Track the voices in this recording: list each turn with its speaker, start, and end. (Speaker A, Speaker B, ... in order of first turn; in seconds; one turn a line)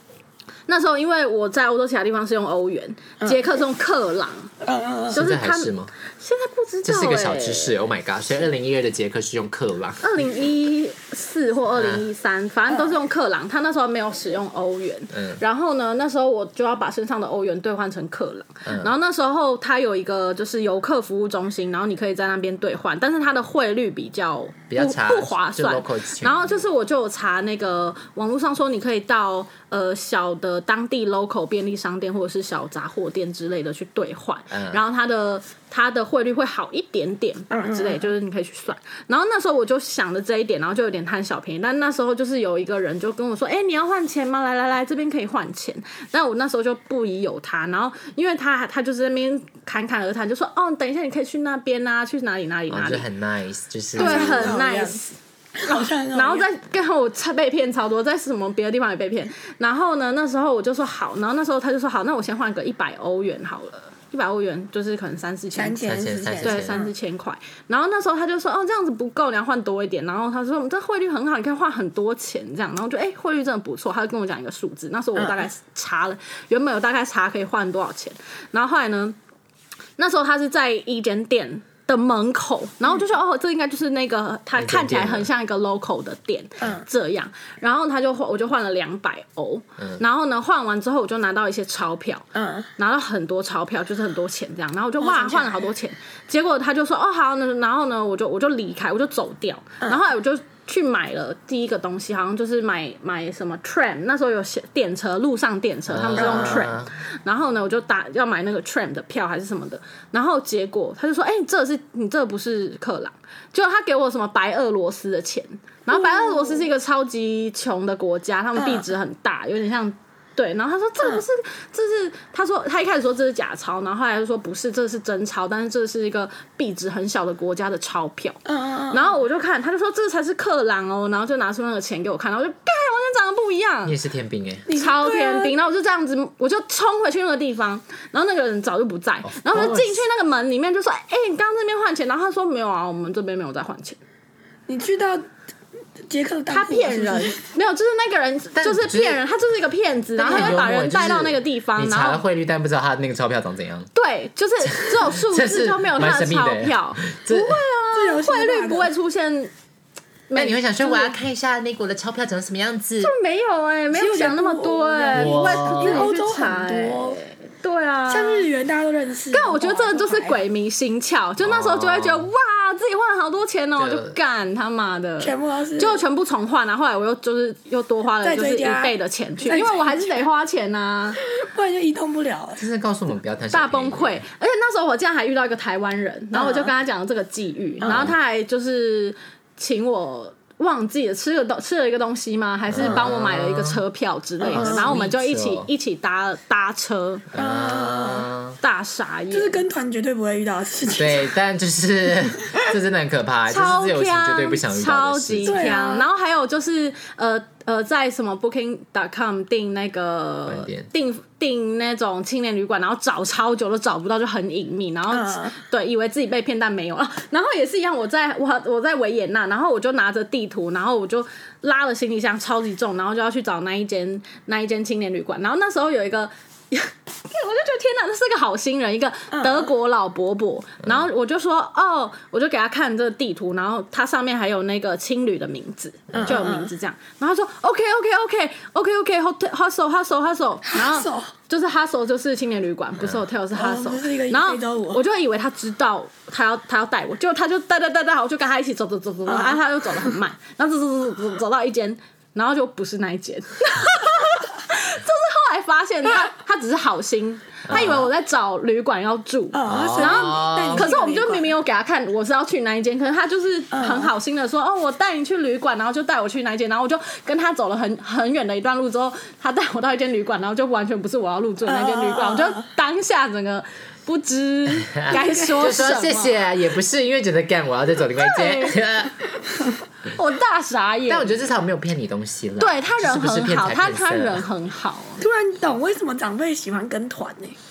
Speaker A: 0.7-4.5
Speaker B: 3.2-3.5
Speaker B: 4.6-5.2
Speaker C: 5.1-5.9
Speaker A: 5.1-7.8
Speaker C: 6.8-10.1
Speaker A: 10.0-53.1
Speaker C: 11.8-12.0
Speaker C: 15.1-15.4
Speaker C: 18.6-18.9
Speaker C: 24.7-26.6
Speaker C: 34.5-34.8
Speaker B: 37.5-38.1
Speaker C: 52.7-54.6
Speaker B: 54.0-55.0
Speaker A: 54.0-55.1
Speaker B: 55.6-56.5
Speaker A: 55.7-65.9
Speaker B: 65.5-66.9
Speaker C: 65.9-66.8
Speaker A: 66.4-79.2
Speaker B: 75.2-75.5
Speaker A: 80.0-92.3
Speaker C: 84.6-85.3
Speaker B: 92.3-92.7
Speaker A: 92.8-133.9
Speaker B: 95.0-95.7
Speaker C: 105.9-106.9
Speaker B: 106.2-106.7
Speaker B: 115.9-116.7
Speaker B: 118.6-118.9
Speaker B: 121.0-121.2
Speaker B: 128.4-129.1
Speaker C: 133.8-134.7
Speaker B: 134.7-135.6
Speaker A: 134.7-144.0
Speaker C: 139.2-140.0
Speaker B: 144.7-145.2
Speaker B: 146.1-147.4
Speaker A: 146.5-152.2
Speaker C: 148.6-149.2
Speaker C: 150.2-153.9
Speaker A: 153.9-159.5
Speaker C: 154.7-157.6
Speaker B: 157.9-158.9
Speaker A: 160.3-161.1
Speaker C: 160.3-163.1
Speaker A: 163.0-168.5
Speaker B: 163.9-167.2
Speaker C: 165.1-166.1
Speaker B: 168.1-170.4
Speaker A: 169.3-181.2
Speaker C: 171.4-172.3
Speaker C: 173.8-174.2
Speaker B: 175.2-176.0
Speaker B: 178.2-180.2
Speaker B: 181.2-182.6
Speaker C: 182.6-184.2
Speaker A: 183.5-197.3
Speaker B: 186.3-186.7
Speaker B: 187.8-188.1
Speaker C: 187.8-188.1
Speaker C: 192.7-193.8
Speaker B: 194.4-194.9
Speaker C: 194.5-195.7
Speaker C: 197.3-198.6
Speaker B: 197.4-198.3
Speaker A: 198.6-199.6
Speaker B: 199.3-201.3
Speaker C: 201.0-205.7
Speaker A: 203.5-276.4
Speaker B: 205.4-206.1
Speaker C: 210.5-210.9
Speaker B: 215.1-215.6
Speaker B: 229.3-229.7
Speaker C: 236.1-236.4
Speaker B: 236.2-236.7
Speaker B: 240.7-241.3
Speaker B: 243.5-245.0
Speaker B: 249.3-250.1
Speaker C: 257.7-258.1
Speaker B: 259.5-261.5
Speaker C: 259.6-260.9
Speaker B: 263.7-264.1
Speaker B: 271.6-272.6
Speaker C: 274.9-279.1
Speaker B: 275.1-275.8
Speaker A: 278.2-278.8
Speaker A: 280.1-281.4
Speaker C: 281.1-284.4
Speaker A: 282.6-285.2
Speaker B: 285.2-287.6